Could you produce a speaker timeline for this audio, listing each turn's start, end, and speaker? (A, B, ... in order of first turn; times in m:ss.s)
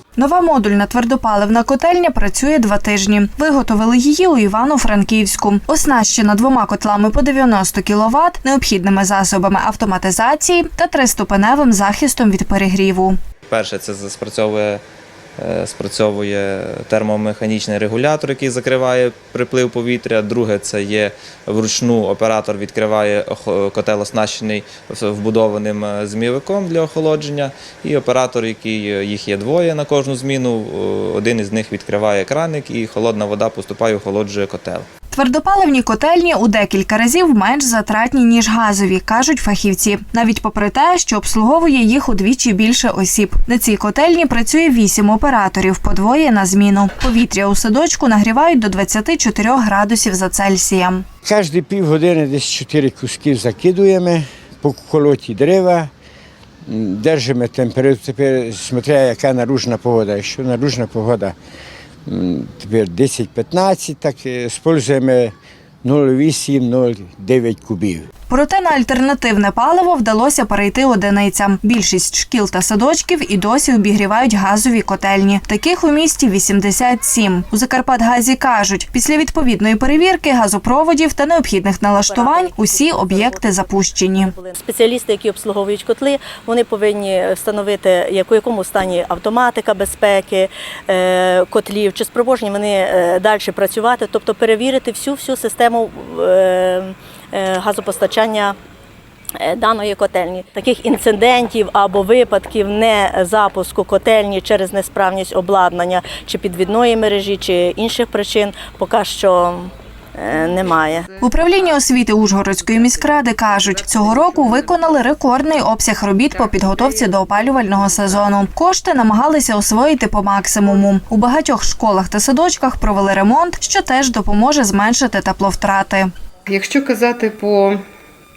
0:00.2-0:13.2 A
0:13.5-0:14.8 B
0:15.4-0:34.9 B
0:35.1-0:51.0 A
0:51.2-0:55.9 C
0:56.7-1:01.3 C
1:02.0-1:08.1 C
1:08.3-1:24.3 A
1:22.0-1:38.6 D
1:39.4-1:51.1 D
1:50.3-1:55.5 E
1:51.2-2:06.1 A
1:56.2-1:58.4 E
2:06.4-2:07.8 E